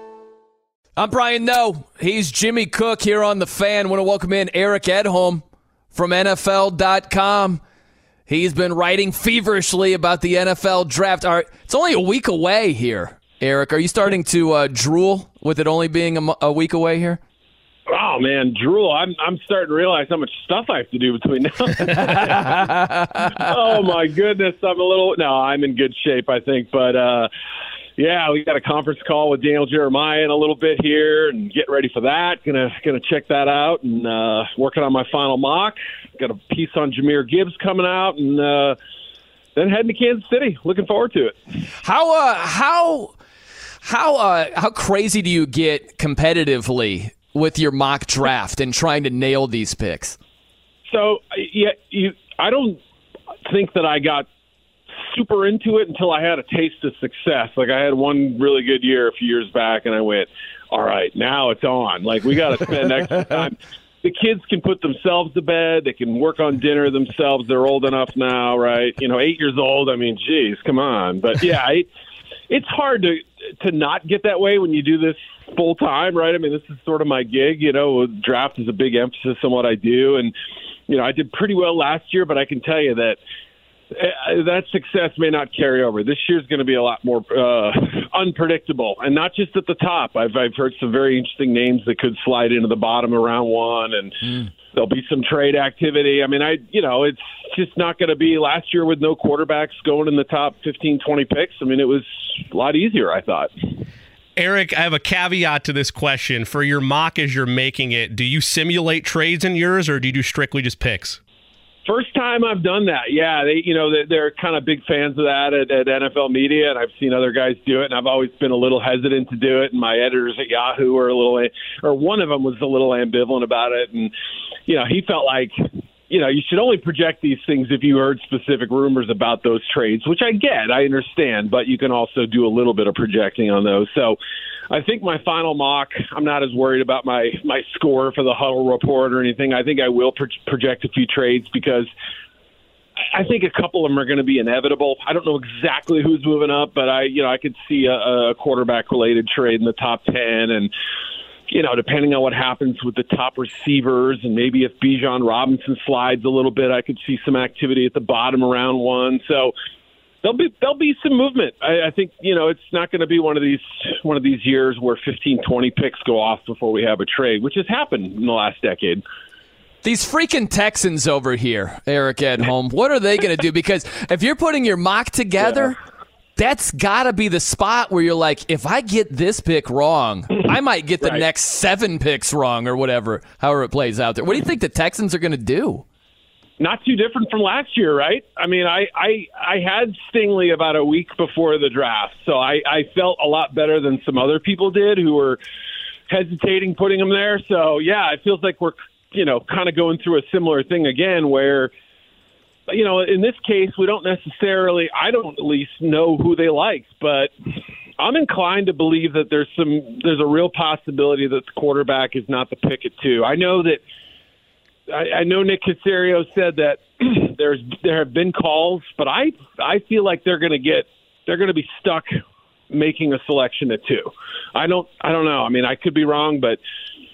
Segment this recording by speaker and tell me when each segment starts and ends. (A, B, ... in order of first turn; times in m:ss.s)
0:01.0-0:07.6 A
0:08.3-0:17.2 A
0:17.9-0:22.6 B
0:22.0-0:23.3 A
0:23.3-0:27.3 B
0:28.0-0:38.8 B
0:39.6-0:41.4 B
0:41.8-0:43.1 A
0:43.8-0:50.2 A
0:50.9-0:52.8 B
0:53.4-0:54.3 B
0:55.0-1:11.9 B
1:12.5-1:20.3 B
1:20.9-1:23.2 B
1:23.9-1:43.5 B
1:44.4-1:51.2 C
1:51.9-2:04.1 B
2:04.7-2:05.6 B
2:06.1-2:14.2 B
2:14.7-2:21.9 B
2:23.1-2:30.7 B
2:31.5-2:39.5 B
2:40.2-2:49.0 B
2:49.8-2:55.8 A
2:56.4-3:05.8 A
3:06.6-3:15.4 B
3:16.1-3:21.7 B
3:22.7-3:27.3 B
3:28.0-3:33.8 B
3:34.9-3:42.1 B
3:42.7-3:46.6 B